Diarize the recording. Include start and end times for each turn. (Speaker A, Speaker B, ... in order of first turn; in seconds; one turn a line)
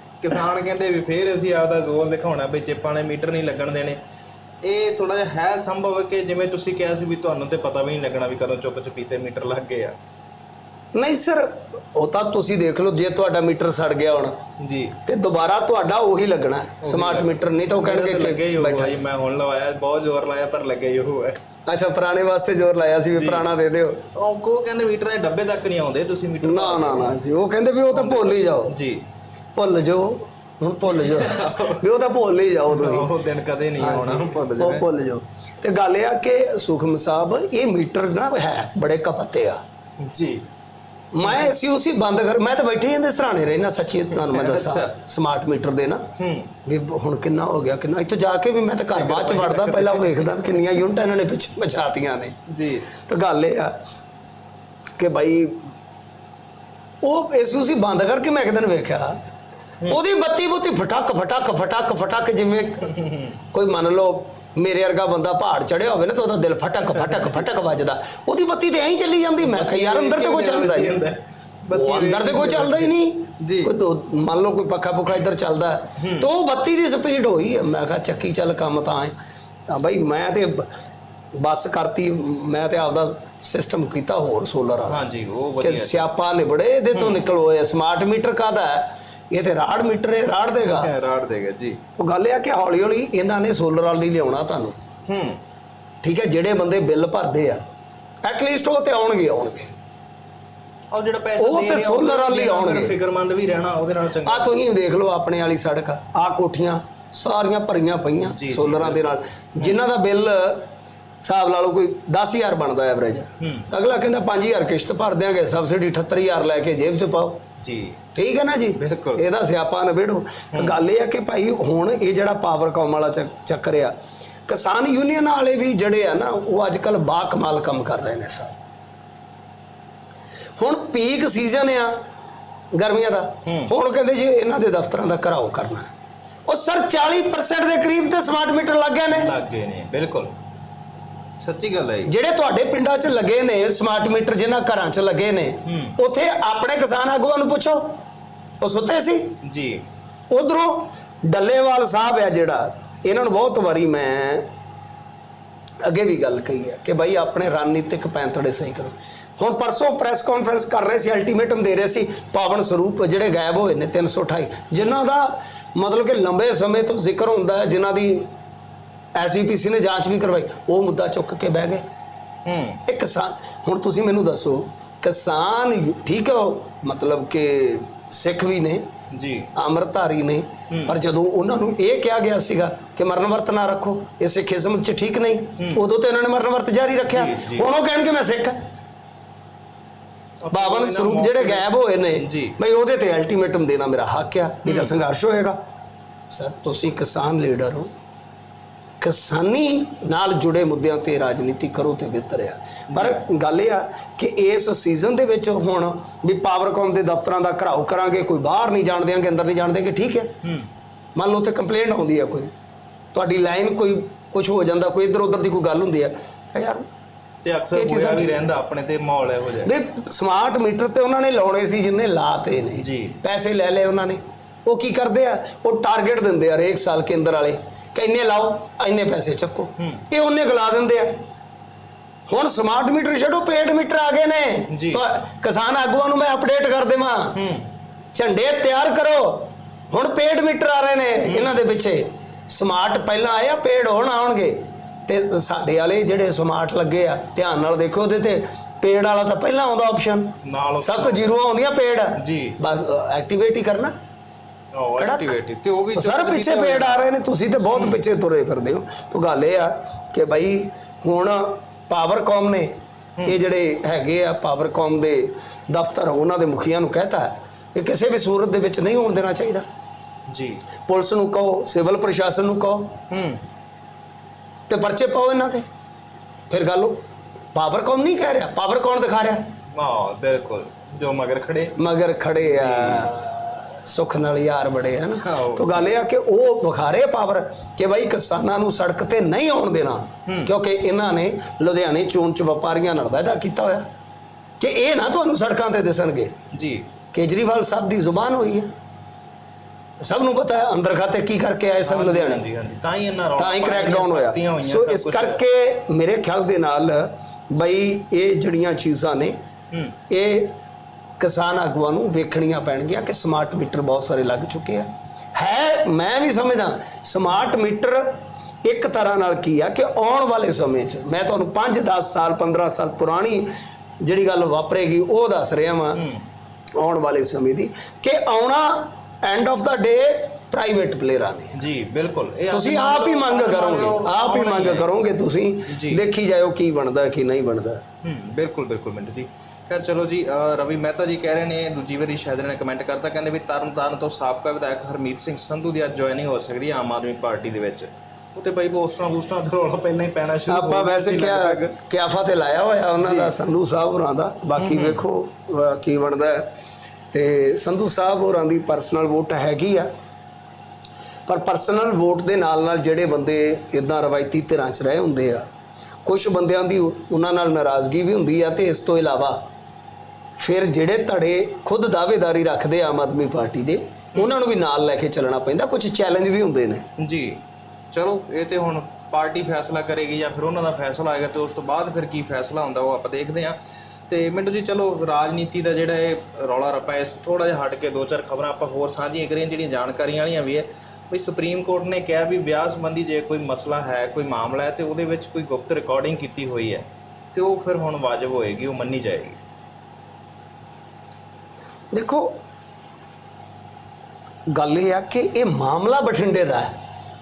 Speaker A: 0.2-4.0
Speaker A: 4.6-9.9
Speaker B: 10.9-14.4
Speaker A: 14.6-14.9
Speaker B: 15.1-18.9
Speaker A: 16.8-21.4
Speaker B: 21.7-24.0
Speaker A: 23.1-23.5
Speaker A: 24.1-27.2
Speaker B: 26.4-28.8
Speaker A: 27.9-29.0
Speaker B: 29.5-33.1
Speaker A: 30.9-31.8
Speaker A: 32.7-34.9
Speaker B: 33.8-39.6
Speaker A: 40.0-40.4
Speaker B: 41.1-46.0
Speaker A: 41.2-41.5
Speaker A: 44.1-44.9
Speaker A: 46.2-46.5
Speaker B: 46.6-52.4
Speaker A: 48.9-50.6
Speaker A: 52.5-52.9
Speaker B: 52.9-53.8
Speaker B: 55.0-55.7
Speaker B: 57.0-59.2
Speaker B: 59.9-62.9
Speaker A: 62.9-63.3
Speaker B: 63.5-71.0
Speaker A: 69.4-73.7
Speaker B: 71.7-79.2
Speaker A: 76.0-76.3
Speaker B: 79.7-80.7
Speaker B: 81.3-85.0
Speaker A: 84.9-86.1
Speaker B: 85.6-90.9
Speaker A: 86.9-87.2
Speaker A: 90.6-91.8
Speaker B: 92.0-94.8
Speaker A: 95.1-95.4
Speaker B: 96.0-97.6
Speaker B: 98.2-99.7
Speaker A: 100.9-104.5
Speaker B: 101.4-103.0
Speaker B: 104.2-110.7
Speaker A: 108.2-109.8
Speaker B: 111.2-117.4
Speaker A: 113.4-113.7
Speaker A: 117.6-118.0
Speaker B: 118.1-123.9
Speaker A: 118.8-119.2
Speaker A: 120.5-120.8
Speaker B: 124.5-128.6
Speaker B: 130.6-131.9
Speaker B: 132.7-135.9
Speaker A: 133.4-133.7
Speaker B: 136.5-139.3
Speaker A: 139.1-140.3
Speaker A: 141.4-142.1
Speaker B: 142.0-147.9
Speaker A: 145.7-145.9
Speaker B: 148.6-149.4
Speaker A: 149.4-149.8
Speaker B: 150.3-154.5
Speaker B: 155.8-168.3
Speaker B: 169.1-171.8
Speaker A: 172.4-172.8
Speaker B: 172.8-178.8
Speaker A: 179.1-179.5
Speaker B: 179.6-188.6
Speaker A: 180.7-180.9
Speaker A: 185.6-185.8
Speaker A: 187.1-187.7
Speaker A: 190.4-192.6
Speaker B: 190.5-195.6
Speaker A: 194.6-194.9
Speaker B: 196.3-197.9
Speaker B: 199.0-210.3
Speaker A: 202.9-203.2
Speaker A: 210.4-210.7
Speaker B: 211.2-212.5
Speaker B: 213.1-216.8
Speaker A: 217.4-219.7
Speaker B: 217.7-218.5
Speaker B: 219.6-231.2
Speaker A: 222.8-223.2
Speaker B: 232.3-237.3
Speaker A: 234.7-235.0
Speaker A: 237.3-237.7
Speaker B: 238.1-253.9
Speaker A: 241.3-241.6
Speaker A: 250.4-251.3
Speaker A: 252.2-252.6
Speaker A: 254.7-257.1
Speaker B: 255.0-255.3
Speaker B: 255.9-262.7
Speaker A: 257.7-258.0
Speaker B: 263.2-269.6
Speaker A: 270.3-270.6
Speaker B: 270.9-272.9
Speaker A: 273.1-273.4
Speaker B: 274.7-275.6
Speaker B: 276.5-277.0
Speaker B: 277.5-279.4
Speaker A: 279.7-281.8
Speaker B: 281.8-293.8
Speaker A: 282.4-283.1
Speaker A: 285.2-285.9
Speaker A: 290.3-290.5
Speaker B: 294.6-296.3
Speaker A: 296.5-296.8
Speaker B: 297.1-298.7
Speaker B: 300.0-302.4
Speaker A: 301.8-305.4
Speaker B: 303.4-309.4
Speaker A: 309.7-309.9
Speaker B: 310.1-310.5
Speaker B: 311.2-323.5
Speaker B: 324.0-326.0
Speaker A: 325.9-326.2
Speaker B: 326.8-331.6
Speaker A: 331.5-334.9
Speaker B: 332.5-337.8
Speaker A: 335.7-336.0
Speaker A: 338.0-351.7
Speaker B: 350.5-356.5
Speaker A: 353.0-353.3
Speaker A: 354.6-355.0
Speaker B: 357.1-359.9
Speaker B: 361.3-365.4
Speaker B: 366.0-369.4
Speaker B: 370.4-376.9
Speaker A: 377.0-377.4
Speaker A: 377.9-399.4
Speaker B: 401.9-402.3
Speaker B: 404.5-406.7